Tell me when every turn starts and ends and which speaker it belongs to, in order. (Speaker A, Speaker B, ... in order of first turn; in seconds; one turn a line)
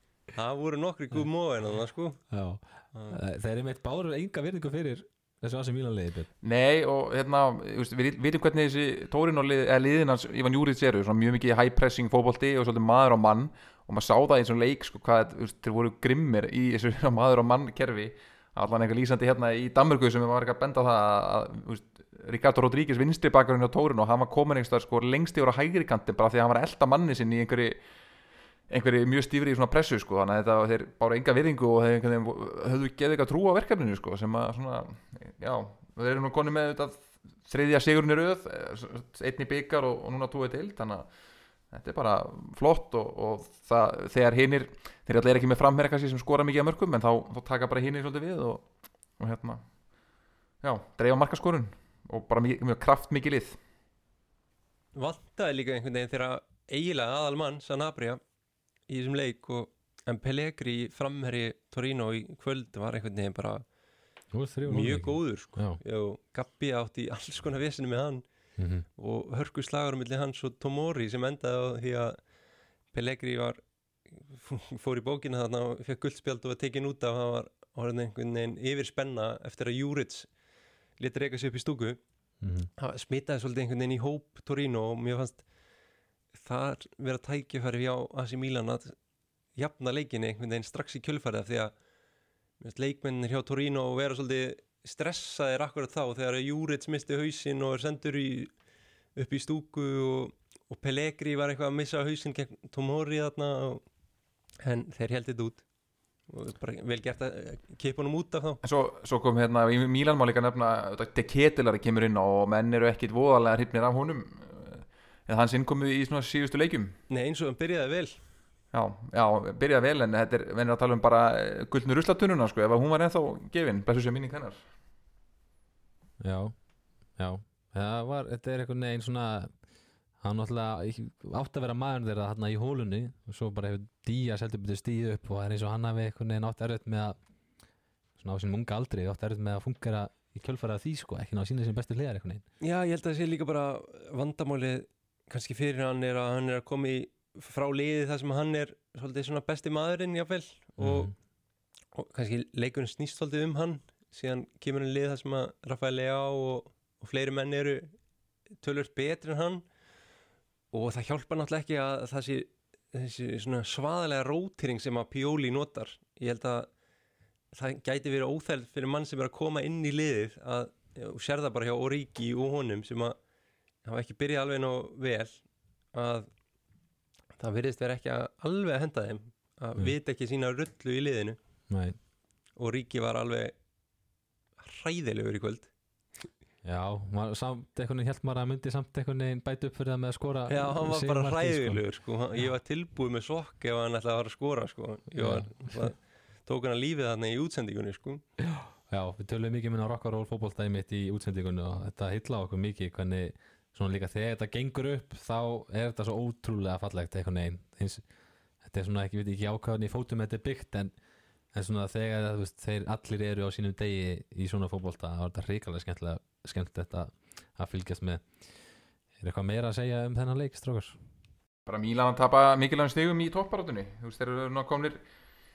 Speaker A: 0.3-2.3
Speaker B: 2.3-6.3
Speaker A: 2.9-3.2
Speaker C: 6.4-27.8
Speaker C: 28.7-41.1
Speaker C: 41.7-48.7
Speaker C: 49.2-49.6
Speaker C: 50.6-53.6
Speaker A: 55.0-58.2
Speaker A: 58.9-63.6
Speaker B: 64.3-65.8
Speaker A: 64.7-68.2
Speaker B: 68.6-68.8
Speaker A: 69.0-72.2
Speaker A: 72.9-80.3
Speaker A: 81.0-82.0
Speaker B: 82.4-82.7
Speaker A: 82.8-85.5
Speaker A: 86.3-89.0
Speaker A: 89.6-91.7
Speaker A: 92.6-98.6
Speaker A: 99.2-103.8
Speaker A: 104.6-105.7
Speaker A: 106.3-108.6
Speaker C: 108.6-117.0
Speaker A: 117.1-118.2
Speaker C: 118.7-124.6
Speaker B: 126.2-126.5
Speaker B: 127.2-129.5
Speaker B: 130.2-137.2
Speaker B: 138.2-142.4
Speaker A: 142.6-151.1
Speaker B: 150.8-151.1
Speaker A: 151.9-157.9
Speaker A: 158.6-159.7
Speaker A: 160.7-166.7
Speaker A: 167.5-173.2
Speaker A: 173.8-176.3
Speaker A: 177.4-181.4
Speaker B: 181.7-182.0
Speaker A: 182.6-183.6
Speaker A: 184.6-185.7
Speaker B: 186.6-191.9
Speaker A: 190.5-198.2
Speaker B: 195.2-195.9
Speaker B: 198.4-208.0
Speaker B: 208.6-210.9
Speaker B: 211.5-218.3
Speaker B: 219.2-221.0
Speaker C: 221.7-225.0